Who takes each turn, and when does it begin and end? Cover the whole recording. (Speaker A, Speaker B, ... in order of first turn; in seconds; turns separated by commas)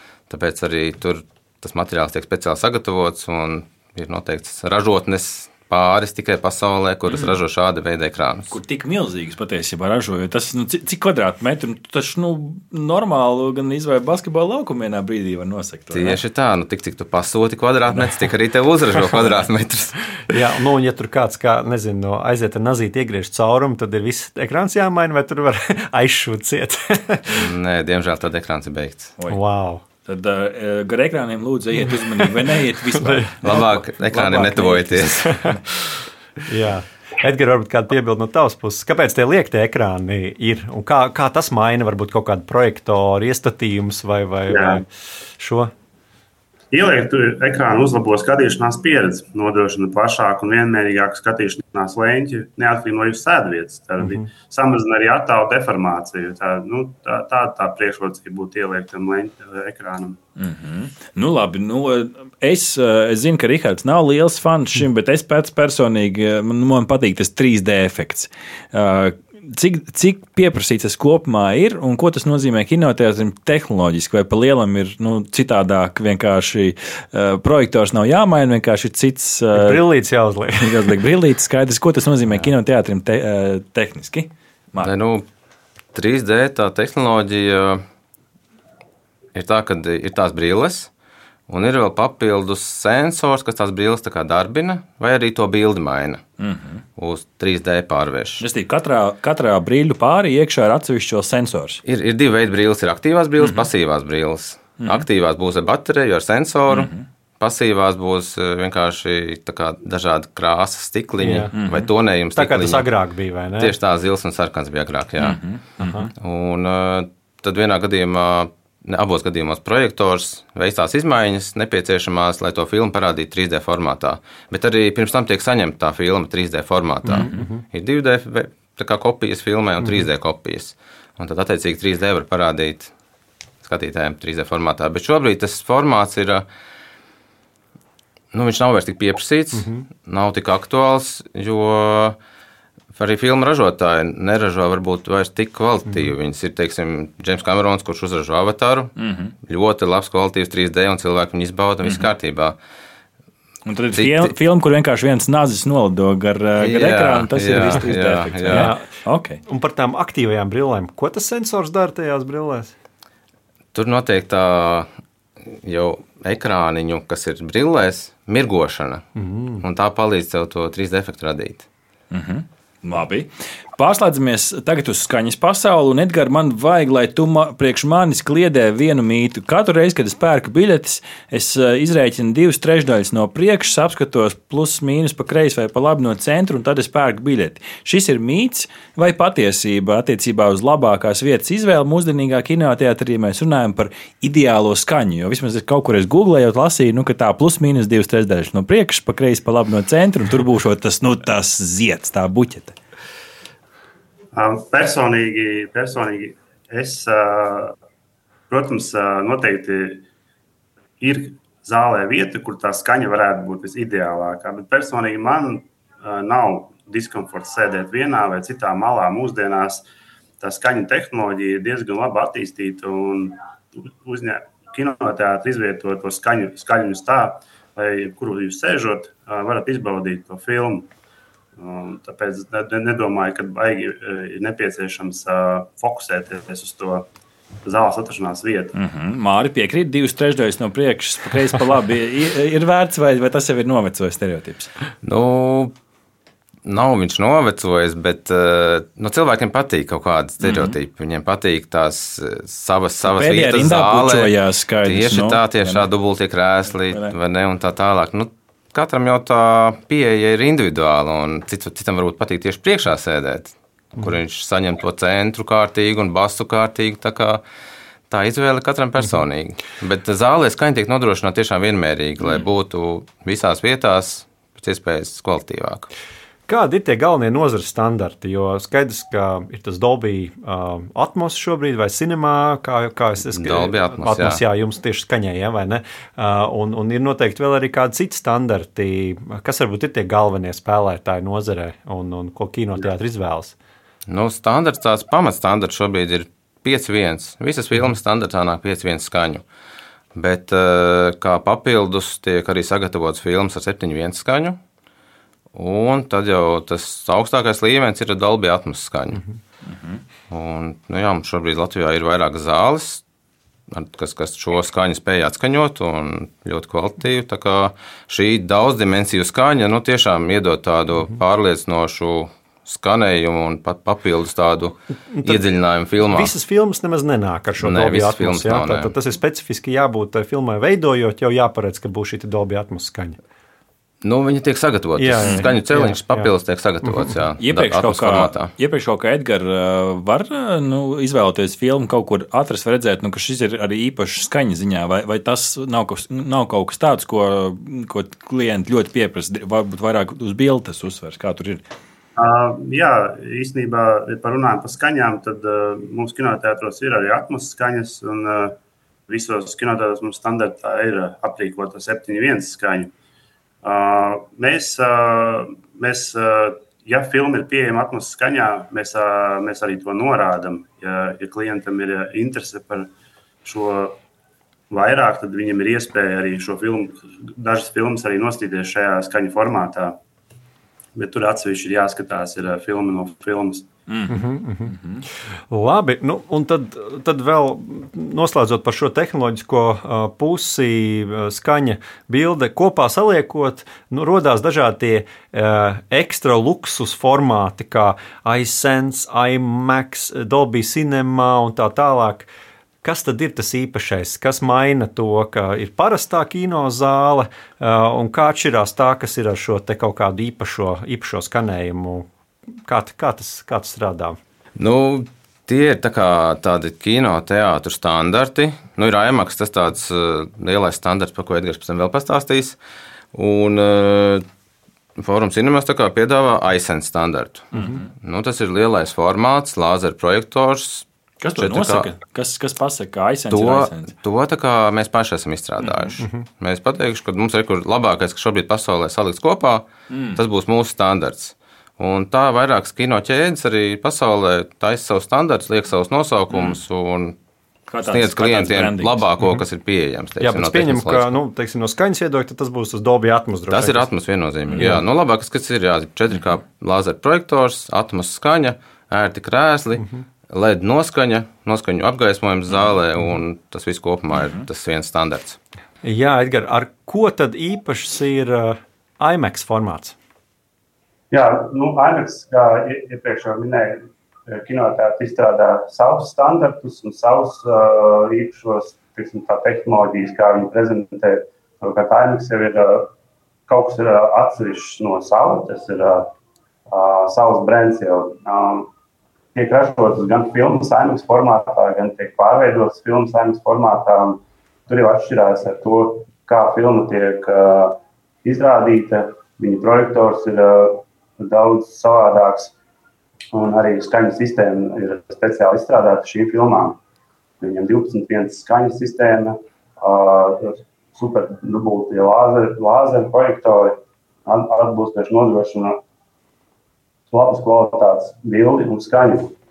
Speaker A: 0.3-8.5, Speaker B: 8.5-16.2, Speaker A: 15.9-20.1, Speaker C: 20.3-27.4, Speaker A: 27.3-29.1, Speaker C: 29.3-29.8, Speaker B: 30.0-35.5, Speaker A: 33.4-35.4, Speaker C: 36.5-44.9, Speaker D: 44.5-44.8, Speaker C: 45.4-45.7, Speaker D: 46.7-60.2, Speaker C: 54.0-54.3, Speaker B: 60.4-79.8, Speaker C: 79.5-81.0, Speaker B: 80.6-84.9, Speaker A: 84.8-85.2, Speaker A: 85.9-87.8, Speaker A: 89.3-90.9, Speaker A: 91.5-96.2, Speaker B: 96.4-96.8, Speaker A: 97.0-98.4, Speaker B: 98.4-101.8, Speaker A: 101.8-112.9, Speaker B: 103.4-103.7, Speaker B: 106.7-107.0, Speaker C: 111.2-111.5, Speaker B: 111.5-111.9, Speaker C: 112.3-113.8, Speaker A: 113.6-115.4, Speaker B: 115.2-116.1, Speaker C: 115.8-116.1, Speaker A: 116.2-132.9, Speaker C: 127.0-127.6, Speaker B: 127.1-127.4, Speaker A: 133.6-136.4, Speaker A: 138.3-142.2, Speaker C: 139.6-139.8, Speaker A: 142.9-148.9, Speaker B: 149.0-149.3, Speaker A: 149.5-152.6, Speaker B: 151.8-152.1, Speaker B: 153.6-159.4, Speaker A: 153.9-154.3, Speaker A: 156.6-158.7, Speaker C: 158.5-158.8, Speaker C: 159.4-162.7, Speaker A: 163.7-164.9, Speaker A: 165.4-169.0, Speaker C: 169.2-169.6, Speaker A: 169.6-171.7, Speaker B: 172.1-202.7, Speaker D: 204.3-207.7, Speaker D: 208.5-210.1, Speaker D: 211.0-219.8, Speaker D: 220.4-223.4, Speaker D: 224.0-230.9, Speaker D: 231.6-237.1, Speaker D: 237.6-238.7, Speaker B: 238.7-244.7, Speaker A: 245.0-245.7, Speaker A: 246.6-267.4, Speaker B: 250.4-250.8, Speaker B: 253.0-255.9, Speaker B: 256.9-257.1, Speaker A: 268.1-275.9, Speaker C: 276.5-293.6, Speaker A: 283.3-284.4, Speaker A: 294.1-299.4, Speaker A: 300.1-304.6, Speaker A: 305.5-309.2, Speaker B: 309.7-310.0, Speaker A: 310.3-313.0, Speaker A: 313.7-326.3, Speaker C: 325.1-325.5, Speaker C: 326.0-333.2, Speaker A: 327.6-328.9, Speaker A: 334.0-338.5, Speaker C: 335.0-336.3, Speaker C: 336.8-337.1, Speaker B: 337.4-351.6, Speaker D: 352.2-358.5, Speaker D: 359.1-362.9, Speaker D: 363.6-372.9, Speaker D: 373.4-374.0, Speaker D: 374.7-380.0, Speaker D: 380.9-383.7, Speaker B: 383.9-385.0, Speaker C: 384.1-384.7, Speaker C: 385.5-402.3, Speaker C: 402.8-412.1, Speaker C: 412.7-414.1, Speaker A: 414.6-422.6, Speaker A: 423.1-424.2, Speaker A: 425.0-431.9, Speaker B: 427.5-427.8, Speaker B: 431.2-433.9, Speaker A: 433.3-447.1, Speaker B: 435.6-436.0, Speaker B: 439.9-440.2, Speaker B: 446.3-446.6, Speaker B: 447.7-449.1, Speaker A: 447.8-451.1, Speaker C: 450.2-453.9, Speaker A: 453.5-465.4, Speaker C: 454.6-454.8, Speaker B: 464.1-464.4, Speaker C: 465.8-469.9, Speaker D: 471.1-482.9, Speaker D: 483.5-486.1, Speaker D: 486.7-488.7, Speaker D: 489.3-502.5, Speaker D: 503.3-506.8, Speaker D: 507.4-515.8, Speaker D: 517.1-519.4